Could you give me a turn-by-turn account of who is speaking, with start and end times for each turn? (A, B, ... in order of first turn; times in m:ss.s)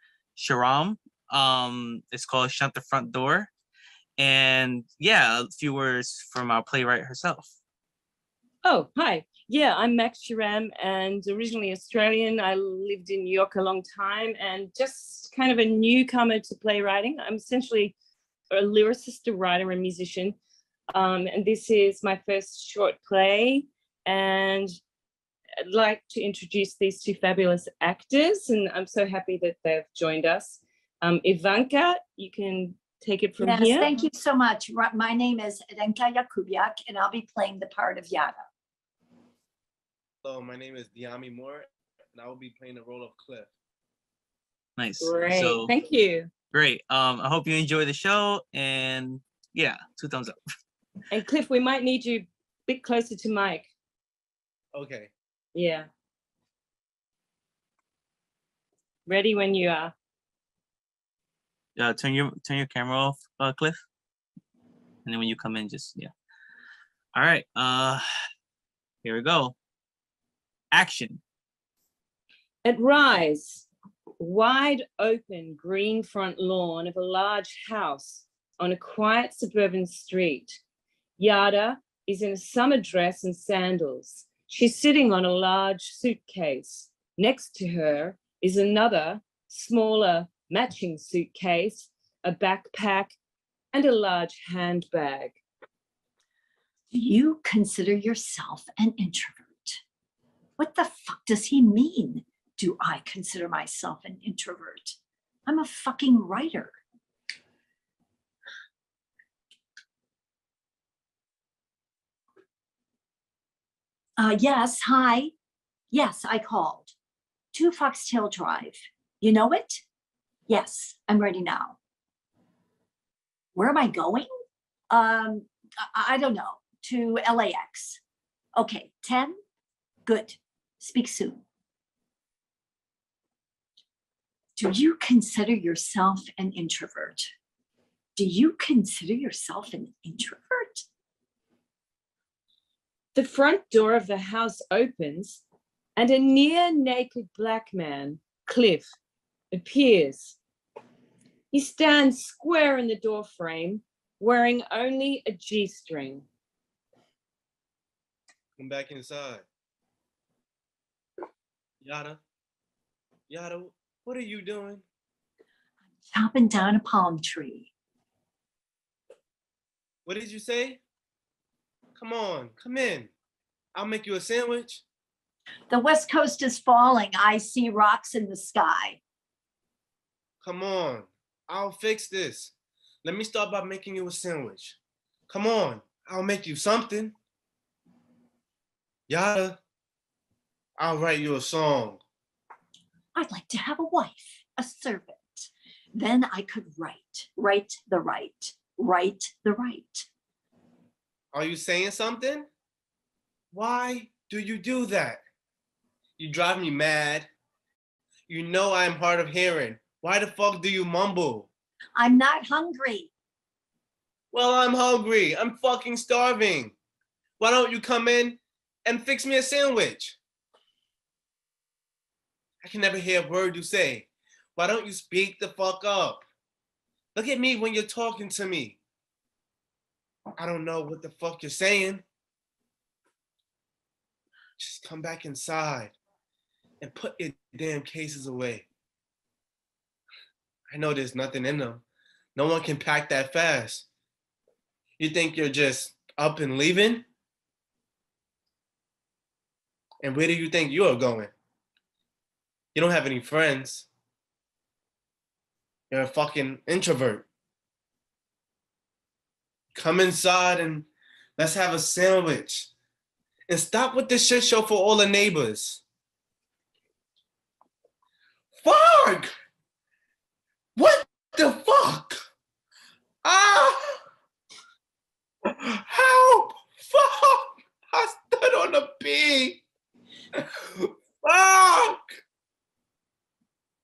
0:00.4-0:03.5 A
0:04.2-0:07.5 A
0:08.6-0:17.9 B
0:18.5-0:20.4 B
0:20.9-0:24.7 B
0:25.6-0:33.9 B
0:33.4-0:38.4 C
0:40.2-0:43.5 D
0:44.8-0:45.7 A
0:45.0-0:46.3 B
0:46.5-0:50.3 A
0:51.1-0:53.7 B
0:54.7-0:55.1 D
0:55.5-0:55.9 B
0:59.0-0:59.9 B
1:01.8-1:03.8 A
1:05.0-1:06.1 A
1:07.1-1:08.0 A
1:09.0-1:09.5 A
1:10.7-1:11.2 A
1:12.6-1:13.7 B
1:14.2-1:20.6 B
1:21.2-1:33.1 B
1:33.7-1:35.4 B
1:36.9-1:39.8 C
1:40.6-1:46.8 C
1:54.2-1:55.3 C
1:55.9-1:56.9 C
1:57.5-1:59.8 C
2:00.5-2:01.8 C
2:03.5-2:04.3 C
2:04.9-2:08.0 C
2:08.6-2:09.4 C
2:10.0-2:11.4 C
2:14.6-2:17.3 C
2:18.2-2:20.8 C
2:23.1-2:25.4 B
2:26.0-2:28.9 B
2:29.5-2:30.4 B
2:31.5-2:36.2 B
2:38.6-2:39.4 D
2:41.8-2:42.2 D
2:43.3-2:44.8 D
2:46.1-2:47.7 C
2:50.0-2:50.8 D
2:52.0-2:53.1 D
2:53.7-2:54.8 D
2:55.7-2:59.0 C
3:00.4-3:02.5 D
3:03.0-3:04.8 D
3:05.3-3:07.1 D
3:09.1-3:09.6 D
3:10.8-3:12.0 D
3:13.1-3:20.1 C
3:21.3-3:22.4 D
3:23.5-3:25.2 D
3:26.2-3:27.3 D
3:28.3-3:31.5 D
3:32.0-3:33.1 C
3:34.3-3:36.7 D
3:37.4-3:40.2 D
3:42.6-3:46.2 D
3:47.1-3:48.8 D
3:50.4-3:52.0 D
3:54.6-3:55.9 D
3:56.8-3:58.7 D
4:00.7-4:01.8 D
4:02.4-4:03.9 D
4:05.0-4:07.1 D
4:10.0-4:11.3 D
4:12.7-4:13.9 D
4:15.9-4:17.3 D
4:19.7-4:22.7 D
4:23.5-4:25.8 D
4:28.6-4:29.3 D
4:30.8-4:32.2 D
4:33.2-4:34.0 D
4:35.5-4:39.6 D
4:40.4-4:42.1 D